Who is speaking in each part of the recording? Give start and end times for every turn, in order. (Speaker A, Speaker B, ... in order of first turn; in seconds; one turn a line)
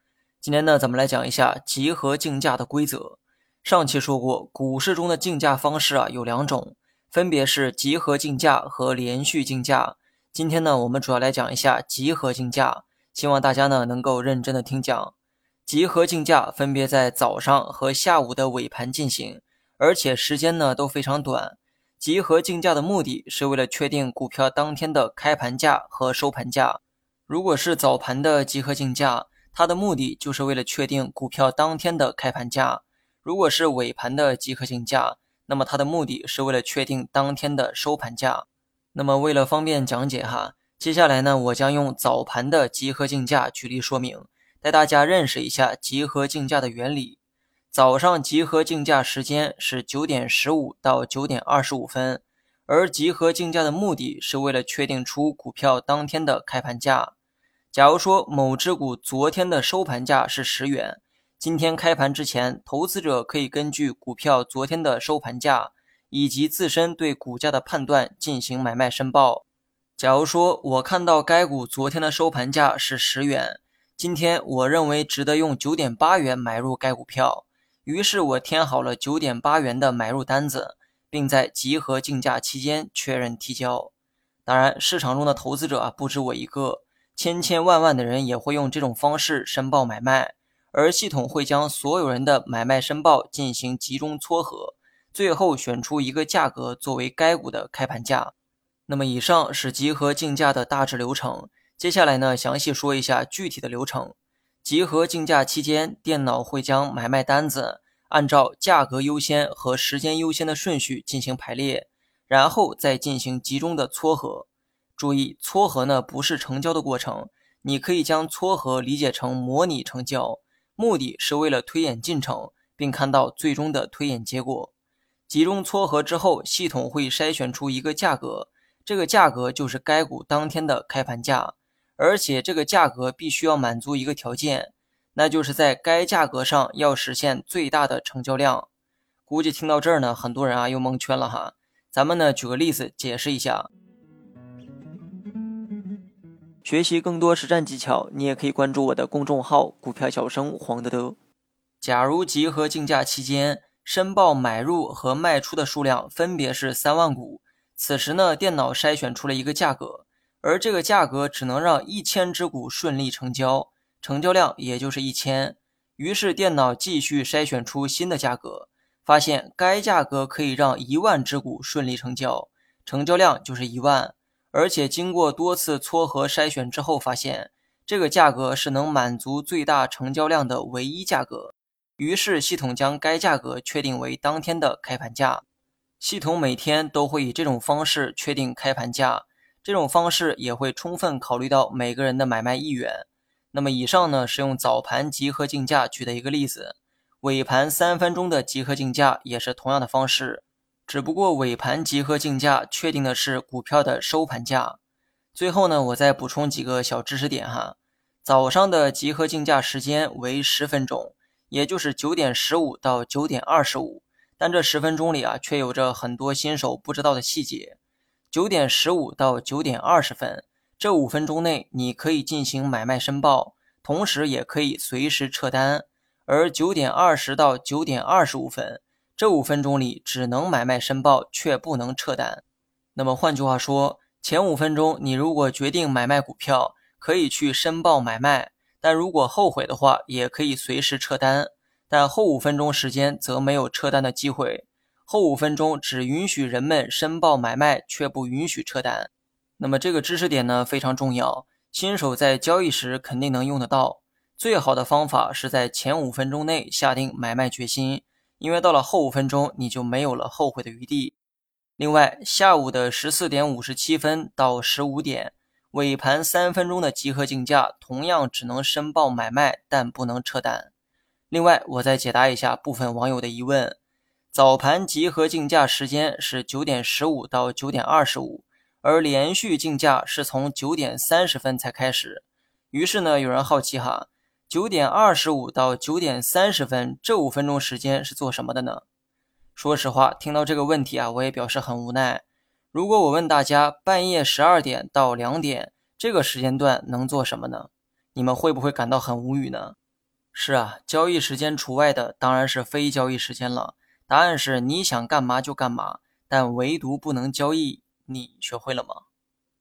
Speaker A: 0.4-15.1
Speaker A: 15.7-47.2
Speaker A: 47.7-57.1
Speaker A: 57.7-69.4
Speaker A: 70.0-83.9
Speaker A: 84.5-98.3
Speaker A: 98.9-124.7
Speaker A: 125.3-138.7
Speaker A: 139.3-143.7
Speaker A: 146.6-151.2
Speaker A: 151.8-185.4
Speaker A: 186.0-204.8
Speaker A: 205.3-217.8
Speaker A: 218.3-232.4
Speaker A: 232.9-261.1
Speaker A: 261.8-270.7
Speaker A: 271.3-273.8
Speaker A: 274.3-288.8
Speaker A: 289.6-299.8
Speaker A: 300.3-309.0